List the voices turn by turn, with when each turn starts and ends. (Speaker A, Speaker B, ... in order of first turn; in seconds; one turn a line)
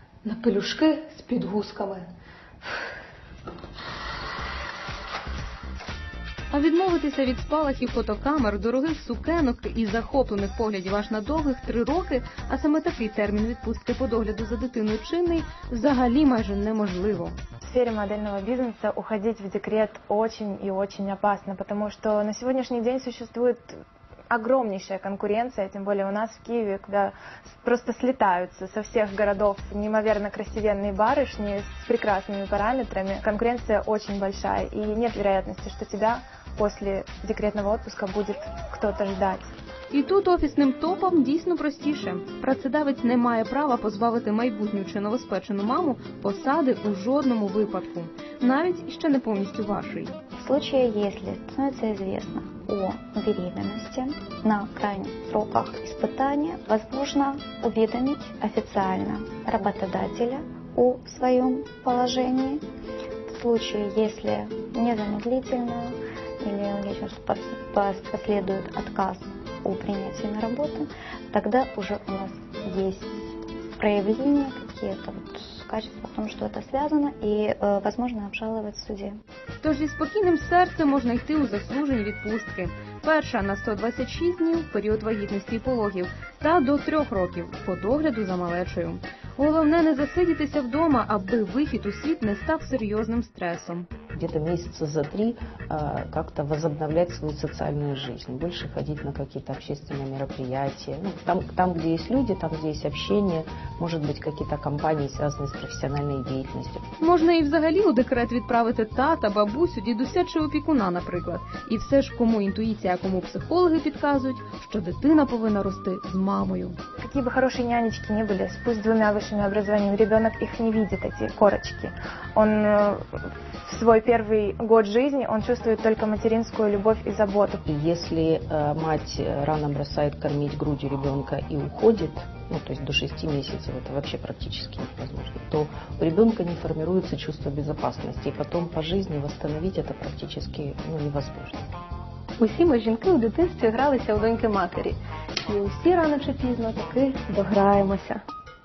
Speaker A: 0.2-2.0
Speaker A: 6.5-17.4
Speaker B: 17.6-23.8
Speaker B: 24.3-39.5
Speaker A: 39.9-50.1
Speaker C: 50.4-62.6
Speaker C: 63.3-79.2
Speaker A: 79.6-93.9
Speaker D: 94.1-106.8
Speaker A: 107.0-116.8
Speaker B: 117.0-127.6
Speaker D: 127.7-141.7
Speaker A: 142.4-148.2